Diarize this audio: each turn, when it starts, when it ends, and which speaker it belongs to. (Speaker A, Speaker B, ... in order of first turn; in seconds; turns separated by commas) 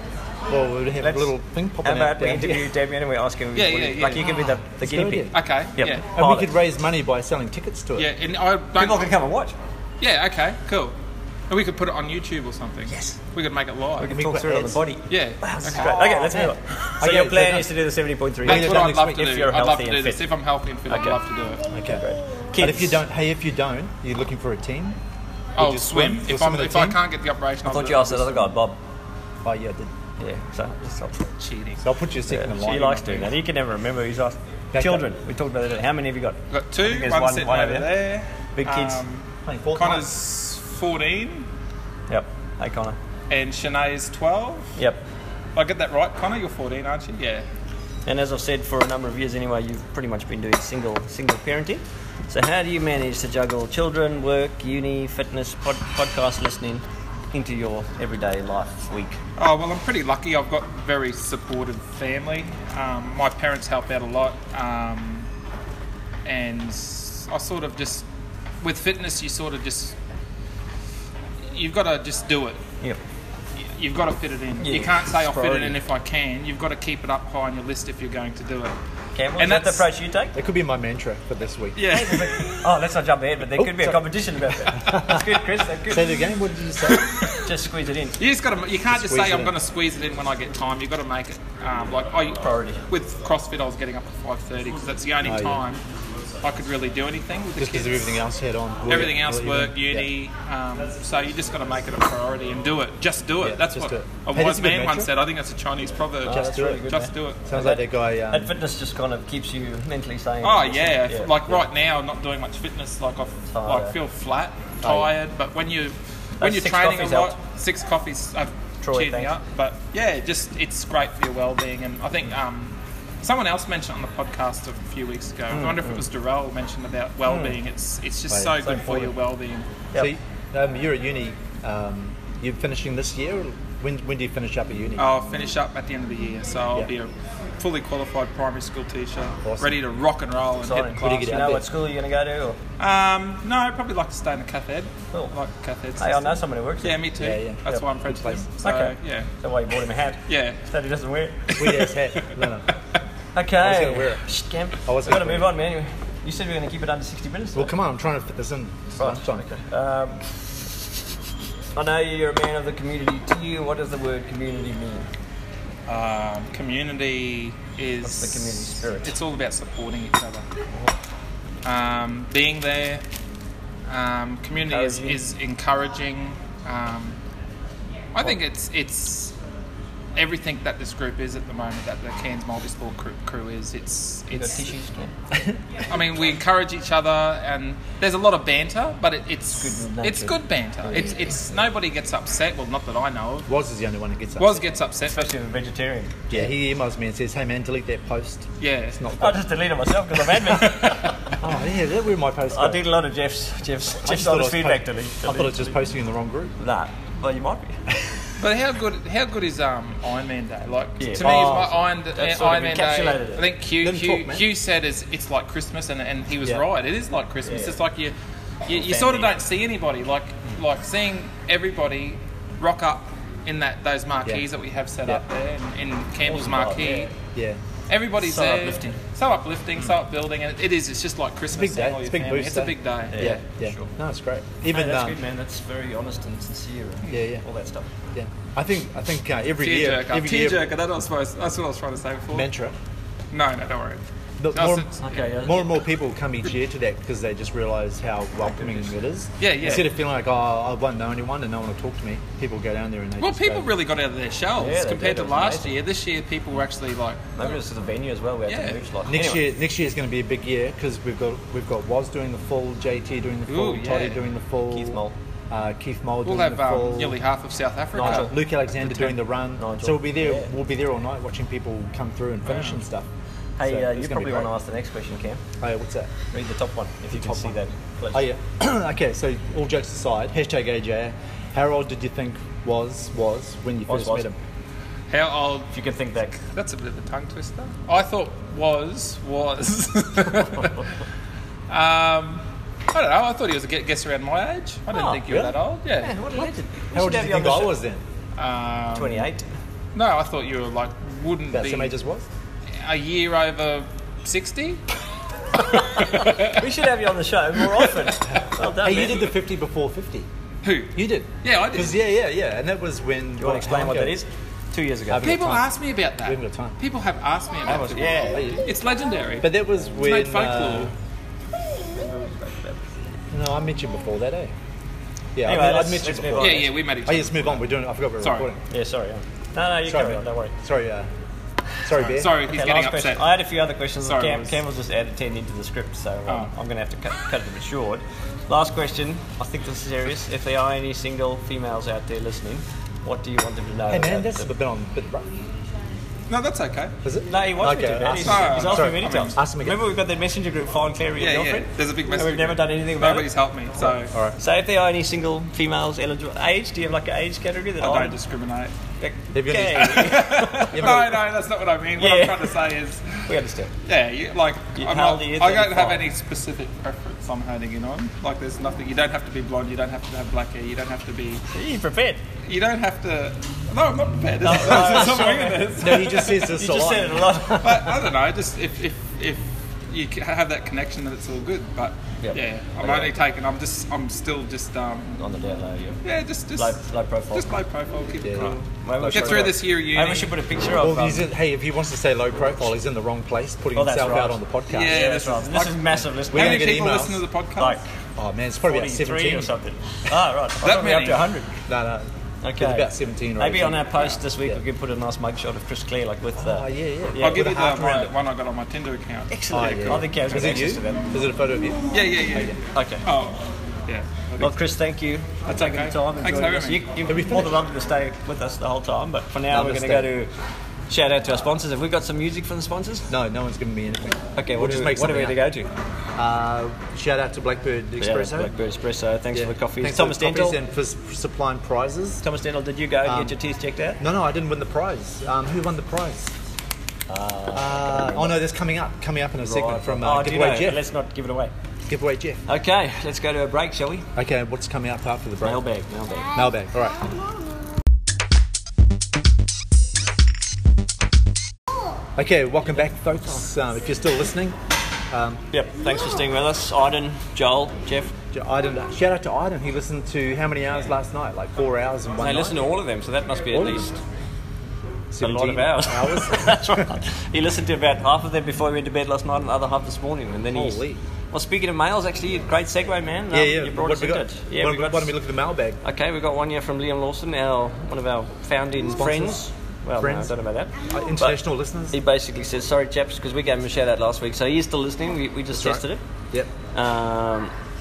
Speaker A: 0.5-2.7, Speaker B: 1.0-6.5, Speaker C: 3.5-4.4, Speaker A: 4.4-5.4, Speaker C: 5.3-6.1, Speaker A: 6.1-8.1, Speaker C: 8.0-9.1, Speaker B: 8.8-9.6, Speaker C: 10.0-10.9, Speaker C: 11.5-14.1, Speaker B: 14.0-20.2, Speaker A: 14.1-14.8, Speaker C: 15.1-16.1, Speaker A: 15.8-17.8, Speaker A: 18.4-19.3, Speaker C: 18.4-21.7, Speaker B: 20.9-21.2, Speaker A: 21.7-22.0, Speaker B: 21.8-23.0, Speaker A: 22.6-25.0, Speaker C: 25.6-28.5, Speaker A: 25.6-27.0, Speaker B: 27.6-28.8, Speaker A: 29.4-29.9, Speaker B: 30.2-31.2, Speaker C: 31.4-31.9, Speaker A: 31.8-33.3, Speaker B: 32.3-37.9, Speaker C: 32.7-33.2, Speaker A: 34.7-35.1, Speaker C: 36.5-41.5, Speaker B: 38.6-39.0, Speaker A: 39.5-40.1, Speaker B: 42.1-43.0, Speaker C: 43.3-44.7, Speaker B: 44.8-45.0, Speaker C: 45.5-47.5, Speaker B: 48.1-59.2, Speaker C: 59.4-65.3, Speaker C: 66.2-68.1, Speaker C: 68.6-70.0, Speaker C: 71.5-72.6, Speaker C: 73.8-78.8, Speaker B: 74.6-75.0, Speaker A: 75.1-75.7, Speaker B: 79.2-80.4, Speaker C: 79.4-79.9, Speaker A: 80.3-82.0, Speaker C: 81.8-82.6, Speaker B: 81.9-86.1, Speaker A: 83.6-84.1, Speaker A: 84.7-87.1, Speaker C: 86.9-87.4, Speaker B: 87.4-88.2, Speaker C: 88.2-95.8, Speaker A: 88.9-89.5, Speaker B: 92.3-92.8, Speaker A: 95.2-95.6, Speaker C: 96.4-98.2, Speaker A: 97.6-100.1, Speaker C: 98.9-107.4, Speaker A: 103.4-105.1, Speaker B: 106.2-111.7, Speaker A: 106.3-106.9, Speaker A: 107.5-108.5, Speaker C: 110.4-129.7, Speaker B: 113.5-114.0, Speaker A: 114.8-115.1, Speaker B: 116.4-117.4, Speaker B: 118.8-119.3, Speaker B: 125.5-126.0, Speaker B: 127.3-127.6, Speaker A: 128.3-128.7, Speaker B: 128.6-129.1, Speaker A: 129.9-135.2, Speaker C: 135.0-141.0, Speaker A: 139.4-139.8, Speaker B: 140.6-142.6, Speaker A: 140.9-141.7, Speaker C: 142.8-149.3, Speaker B: 146.0-147.0, Speaker A: 147.2-148.5, Speaker B: 148.6-151.6, Speaker C: 150.3-150.6, Speaker C: 151.6-151.8, Speaker A: 151.6-152.7, Speaker B: 153.3-157.7, Speaker A: 153.6-154.2, Speaker A: 154.9-155.6, Speaker A: 157.6-159.5, Speaker B: 159.0-160.5, Speaker B: 161.8-165.1, Speaker C: 165.9-170.4, Speaker B: 168.0-169.2, Speaker C: 171.6-173.0, Speaker C: 173.9-177.2, Speaker B: 174.7-175.2, Speaker C: 178.2-179.3, Speaker C: 180.2-184.7, Speaker B: 184.3-185.1, Speaker C: 185.9-193.5, Speaker B: 189.5-191.5, Speaker A: 193.5-194.7, Speaker C: 194.4-195.3, Speaker B: 195.1-196.5, Speaker A: 196.3-199.5, Speaker C: 198.6-199.0, Speaker B: 199.2-201.2, Speaker C: 200.6-201.1, Speaker A: 201.4-202.9, Speaker B: 202.5-205.8, Speaker A: 204.0-206.5, Speaker B: 206.6-207.8, Speaker C: 208.4-218.1, Speaker B: 211.0-213.5, Speaker A: 211.2-211.7, Speaker A: 213.8-214.5, Speaker B: 217.4-217.8, Speaker C: 218.7-227.1, Speaker B: 218.7-219.4, Speaker B: 226.2-227.1, Speaker A: 227.3-227.6, Speaker C: 227.9-233.3, Speaker B: 228.2-229.0, Speaker A: 231.5-235.2, Speaker B: 233.1-233.9, Speaker B: 234.7-237.9, Speaker A: 237.1-237.4, Speaker A: 238.1-240.7, Speaker C: 239.6-242.5, Speaker A: 242.3-242.8, Speaker C: 243.3-244.0, Speaker A: 244.4-253.7, Speaker C: 244.5-245.2, Speaker B: 245.0-245.7, Speaker B: 248.4-248.9, Speaker C: 249.4-249.9, Speaker C: 253.2-257.6, Speaker B: 254.6-255.7, Speaker B: 257.4-259.4, Speaker C: 258.5-258.8, Speaker A: 259.1-267.2, Speaker C: 263.5-264.2, Speaker B: 264.7-265.1, Speaker C: 266.2-269.2, Speaker B: 268.0-268.3, Speaker A: 268.0-273.1, Speaker B: 269.6-270.5, Speaker C: 272.5-272.8, Speaker B: 273.6-275.4, Speaker A: 273.6-274.5, Speaker A: 275.6-276.1, Speaker B: 276.3-278.3, Speaker A: 277.1-277.6, Speaker A: 278.1-284.4, Speaker B: 283.9-284.3, Speaker C: 285.1-285.8, Speaker B: 285.7-286.4, Speaker C: 286.4-290.8, Speaker C: 291.7-296.1, Speaker B: 294.9-295.2, Speaker A: 295.3-295.5, Speaker B: 296.0-297.8, Speaker A: 296.9-298.0, Speaker C: 298.4-299.3, Speaker B: 298.9-299.5, Speaker C: 299.9-302.0, Speaker A: 301.5-302.3, Speaker C: 302.8-304.8, Speaker B: 305.8-309.3, Speaker C: 305.9-306.5, Speaker A: 308.6-310.3, Speaker C: 310.6-312.0, Speaker A: 310.9-314.2, Speaker B: 313.4-315.3, Speaker A: 315.1-316.8, Speaker C: 315.2-320.9, Speaker B: 317.7-318.6, Speaker A: 318.3-318.7, Speaker A: 319.4-320.9, Speaker B: 321.8-322.8, Speaker A: 323.3-324.5, Speaker A: 325.4-328.6, Speaker B: 325.4-326.8, Speaker C: 326.4-328.5, Speaker B: 328.7-330.5, Speaker A: 329.8-331.1, Speaker A: 331.8-332.4, Speaker C: 331.9-333.4, Speaker B: 332.4-344.5, Speaker C: 334.0-334.6, Speaker A: 343.9-345.4, Speaker C: 346.3-346.9, Speaker A: 347.0-349.8, Speaker B: 347.3-353.3, Speaker C: 348.2-349.4, Speaker C: 351.2-354.1, Speaker A: 354.1-354.4, Speaker B: 354.4-358.2, Speaker C: 357.8-358.7, Speaker B: 359.0-360.8, Speaker A: 359.3-361.2, Speaker C: 359.8-363.3, Speaker B: 362.0-362.6, Speaker B: 363.3-363.7, Speaker C: 363.9-371.4, Speaker B: 364.8-366.1, Speaker B: 371.5-372.2, Speaker C: 372.5-376.3, Speaker B: 374.4-377.8, Speaker A: 375.8-377.9, Speaker C: 377.6-385.1, Speaker B: 382.2-383.1, Speaker B: 385.2-386.0, Speaker C: 386.0-386.8, Speaker B: 386.5-387.5, Speaker C: 387.3-390.3, Speaker A: 388.2-389.6, Speaker B: 388.4-391.3, Speaker A: 390.8-395.1, Speaker B: 393.8-396.9, Speaker C: 394.7-397.8, Speaker A: 396.2-397.2, Speaker B: 397.6-397.8, Speaker A: 398.2-399.5, Speaker B: 398.6-401.5, Speaker C: 400.6-401.3, Speaker A: 401.7-404.6, Speaker B: 402.4-407.6, Speaker A: 406.4-408.1, Speaker C: 407.2-410.0, Speaker B: 409.3-411.1, Speaker A: 409.5-412.6, Speaker C: 411.9-414.6, Speaker B: 412.7-413.0, Speaker B: 414.4-420.3, Speaker C: 415.5-416.9, Speaker A: 417.1-417.6, Speaker A: 419.5-420.1, Speaker B: 420.9-423.1, Speaker A: 423.1-425.4, Speaker B: 424.4-425.7, Speaker A: 426.2-428.5, Speaker B: 428.0-430.6, Speaker A: 429.3-432.2, Speaker B: 432.2-434.0, Speaker A: 433.0-433.3, Speaker A: 434.0-436.3, Speaker B: 437.1-438.4, Speaker A: 437.5-440.8, Speaker B: 439.4-441.5, Speaker A: 441.9-442.4, Speaker B: 442.5-444.1, Speaker A: 444.1-445.6, Speaker B: 445.4-446.3, Speaker A: 446.3-447.0, Speaker A: 452.2-454.6, Speaker A: 455.1-455.4, Speaker B: 455.5-458.1, Speaker A: 458.3-462.6, Speaker B: 462.2-463.9, Speaker A: 463.5-463.9, Speaker A: 465.1-466.9, Speaker B: 465.2-470.8, Speaker A: 470.5-471.0, Speaker B: 471.3-475.1, Speaker A: 473.3-475.8, Speaker B: 475.8-481.4, Speaker A: 478.8-482.0, Speaker B: 481.9-486.0, Speaker A: 485.5-486.5, Speaker B: 486.7-487.5